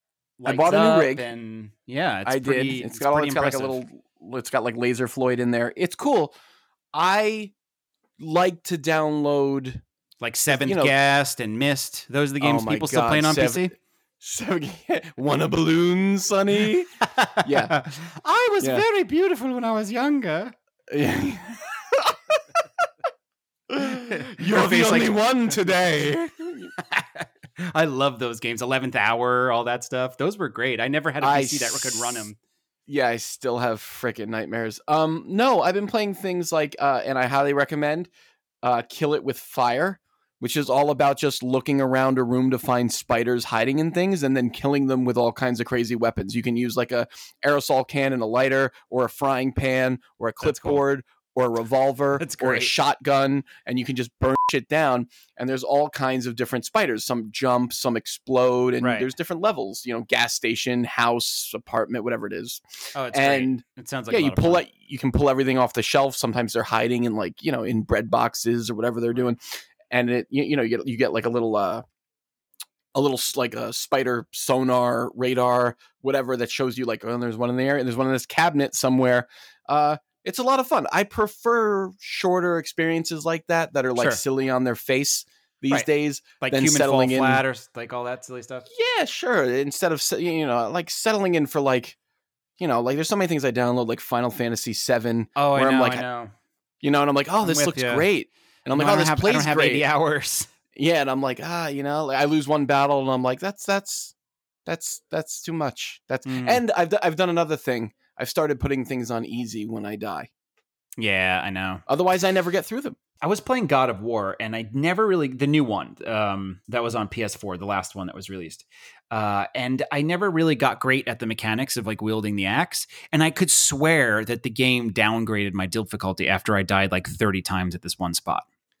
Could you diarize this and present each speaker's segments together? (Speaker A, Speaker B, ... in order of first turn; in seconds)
Speaker A: 0.4-3.8, 10.2-13.7, 17.0-20.5, 23.9-25.2, 26.8-32.4, 50.4-50.8, 52.2-52.8, 58.8-59.1, 62.9-64.7, 84.0-84.2, 86.4-88.7, 95.3-96.3, 97.4-98.1, 98.7-100.5, 106.2-106.6, 111.0-111.8, 113.2-128.4
Speaker B: 0.4-1.3, 2.2-6.3, 6.9-7.5, 8.2-9.8, 10.5-10.9, 12.4-16.9, 17.4-17.7, 20.9-22.8, 23.7-26.7, 31.2-32.3, 32.9-38.1, 38.6-71.8, 72.9-87.4, 88.7-92.0, 92.6-96.0, 96.8-99.8, 100.7-104.1, 104.7-110.3, 111.9-113.0